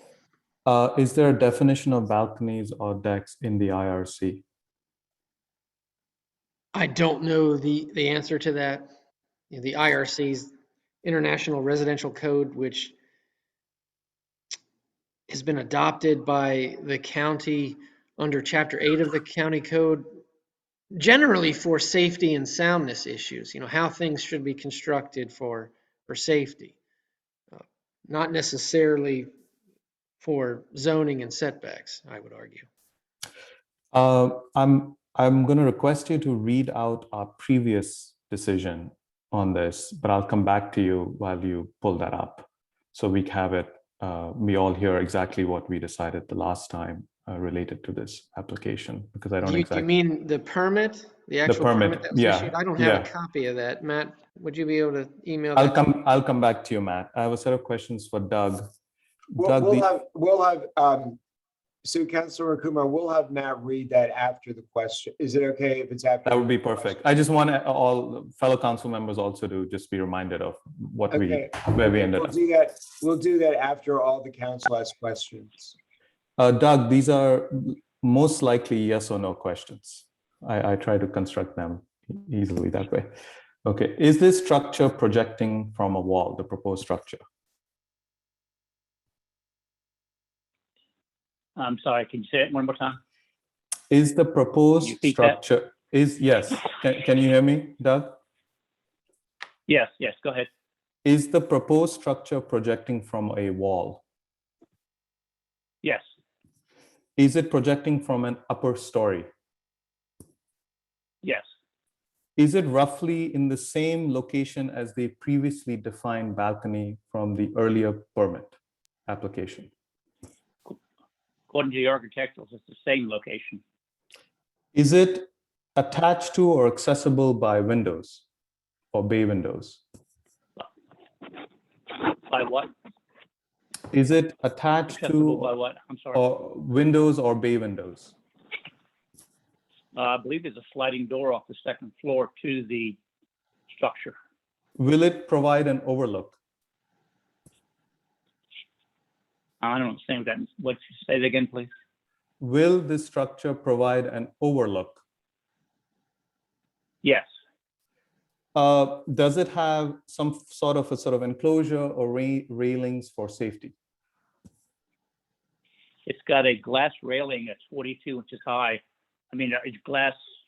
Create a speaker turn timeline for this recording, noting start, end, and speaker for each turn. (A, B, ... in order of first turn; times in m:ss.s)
0:00.7-0:04.4 A
0:06.7-0:08.9 B
0:09.5-0:10.5 B
0:11.0-0:12.9 B
0:15.3-0:20.1 B
0:21.0-0:26.8 B
0:27.5-0:29.3 B
0:30.2-0:32.6 B
0:33.9-0:49.9 A
0:49.4-0:55.8 B
0:51.5-0:53.1 A
0:55.6-0:58.6 A
0:59.4-1:01.2 C
0:59.4-0:59.9 A
1:01.8-1:06.9 C
1:06.2-1:12.4 A
1:11.1-1:15.8 C
1:16.4-1:23.1 A
1:23.6-1:27.2 A
1:31.6-1:33.0 D
1:33.9-1:38.2 A
1:34.8-1:35.4 D
1:39.7-1:40.5 D
1:41.0-1:44.0 A
1:47.2-1:49.3 A
1:52.4-1:58.5 A
1:59.1-1:59.7 A
2:01.5-2:03.6 D
2:04.7-2:08.2 A
2:08.9-2:09.8 A
2:11.9-2:12.7 D
2:13.9-2:15.5 A
2:14.9-2:16.2 D
2:16.1-2:18.2 A
2:20.0-2:23.0 D
2:23.7-2:24.2 D
2:24.8-2:26.4 A
2:29.6-2:31.7 D
2:32.4-2:35.0 A
2:38.6-2:43.7 A
2:46.1-2:50.2 D